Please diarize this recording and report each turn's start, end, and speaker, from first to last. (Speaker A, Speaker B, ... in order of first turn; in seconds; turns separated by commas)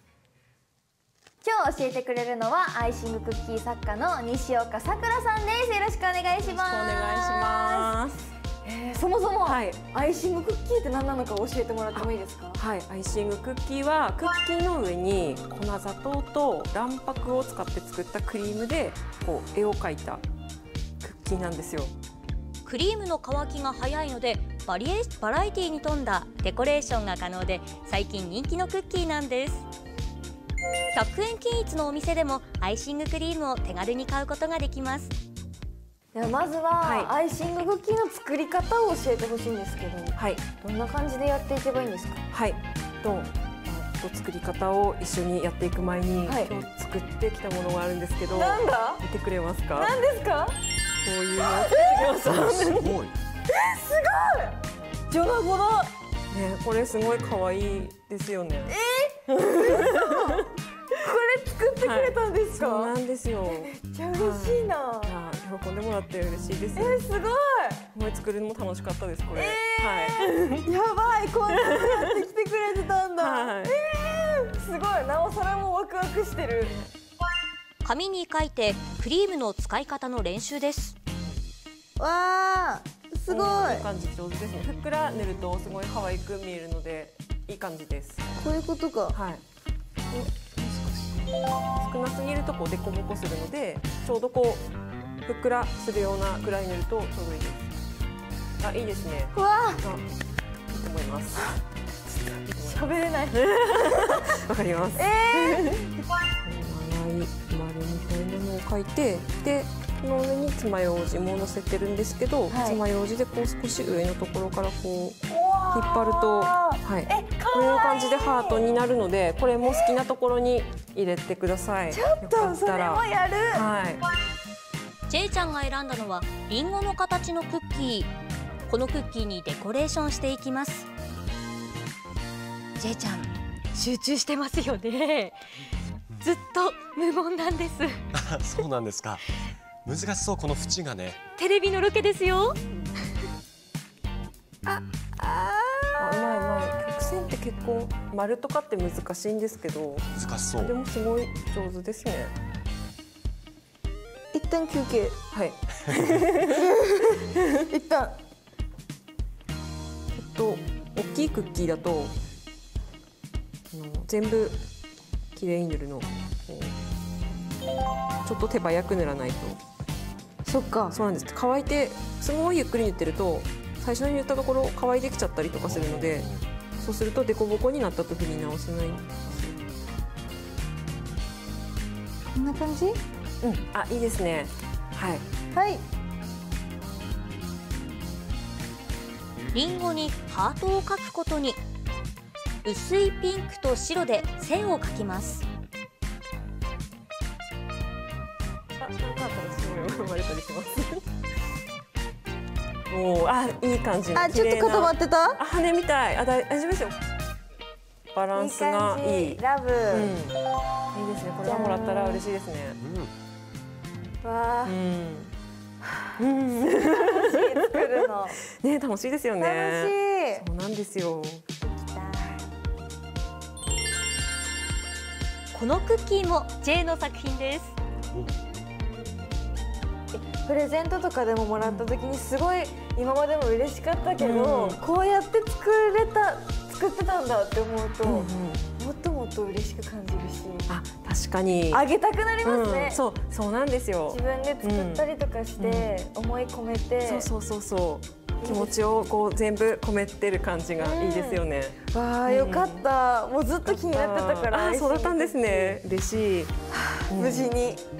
Speaker A: 1.4-8.0, Speaker B: 6.3-8.3, Speaker A: 8.6-12.6, Speaker B: 9.4-9.8, Speaker B: 11.9-20.2, Speaker B: 21.0-21.9, Speaker C: 22.6-29.7, Speaker C: 30.9-35.1, Speaker A: 36.1-42.2, Speaker B: 36.8-37.1, Speaker B: 40.1-40.4, Speaker B: 42.3-49.9, Speaker A: 46.2-46.5, Speaker A: 48.3-49.0, Speaker A: 49.8-50.5, Speaker B: 51.0-53.0, Speaker A: 51.4-52.3, Speaker D: 52.4-53.1, Speaker A: 53.5-55.9, Speaker B: 56.3-58.8, Speaker A: 58.7-62.9, Speaker B: 59.3-60.5, Speaker B: 61.8-67.0, Speaker A: 63.5-65.2, Speaker A: 66.7-67.9, Speaker B: 67.9-70.7, Speaker A: 69.3-76.8, Speaker B: 71.5-72.2, Speaker B: 73.2-73.8, Speaker B: 76.6-76.9, Speaker C: 77.8-81.0, Speaker A: 82.0-83.8, Speaker B: 83.3-88.3, Speaker A: 88.3-89.2, Speaker B: 89.1-89.4, Speaker B: 90.3-91.2, Speaker B: 91.8-94.7, Speaker B: 95.2-97.7, Speaker B: 98.6-100.1, Speaker A: 99.3-99.8, Speaker B: 100.7-101.6, Speaker B: 102.2-105.8, Speaker A: 102.5-104.3, Speaker A: 105.0-106.0, Speaker B: 106.4-115.2, Speaker A: 112.5-112.8, Speaker A: 115.3-118.7, Speaker B: 115.7-124.0, Speaker A: 121.9-123.7, Speaker C: 125.1-128.1, Speaker C: 128.7-130.9, Speaker C: 132.8-135.4, Speaker C: 136.2-138.0, Speaker D: 138.1-139.2, Speaker D: 139.8-141.2, Speaker C: 141.3-142.6, Speaker A: 144.7-146.5, Speaker B: 146.0-152.3, Speaker D: 150.2-150.7, Speaker A: 154.3-155.2, Speaker B: 155.3-156.7, Speaker A: 155.9-158.2, Speaker B: 160.1-162.2, Speaker B: 163.7-164.6, Speaker B: 165.3-166.8, Speaker B: 168.2-169.6, Speaker A: 170.4-171.0, Speaker B: 170.9-179.6, Speaker A: 182.3-183.0, Speaker B: 183.4-185.2, Speaker A: 185.5-185.8, Speaker C: 189.5-191.6, Speaker C: 192.6-195.4, Speaker B: 198.8-201.0, Speaker B: 202.9-207.0, Speaker A: 204.1-205.4, Speaker B: 208.1-210.4, Speaker A: 208.3-210.2, Speaker B: 210.9-212.8, Speaker A: 211.4-212.2, Speaker D: 212.8-213.1, Speaker A: 214.2-214.8, Speaker B: 214.6-215.3, Speaker B: 216.2-221.4, Speaker A: 216.6-218.4, Speaker A: 219.4-220.5, Speaker A: 221.6-222.4, Speaker C: 225.5-227.8, Speaker A: 230.1-240.7, Speaker B: 231.6-231.9, Speaker B: 234.2-234.8, Speaker B: 238.0-238.7, Speaker B: 240.7-241.8, Speaker A: 241.7-243.0, Speaker B: 242.4-245.1, Speaker A: 244.1-247.3, Speaker B: 245.6-246.0, Speaker B: 247.0-252.9, Speaker A: 248.4-249.1, Speaker A: 250.8-255.8, Speaker B: 253.6-256.5, Speaker A: 256.7-257.8, Speaker B: 257.1-257.6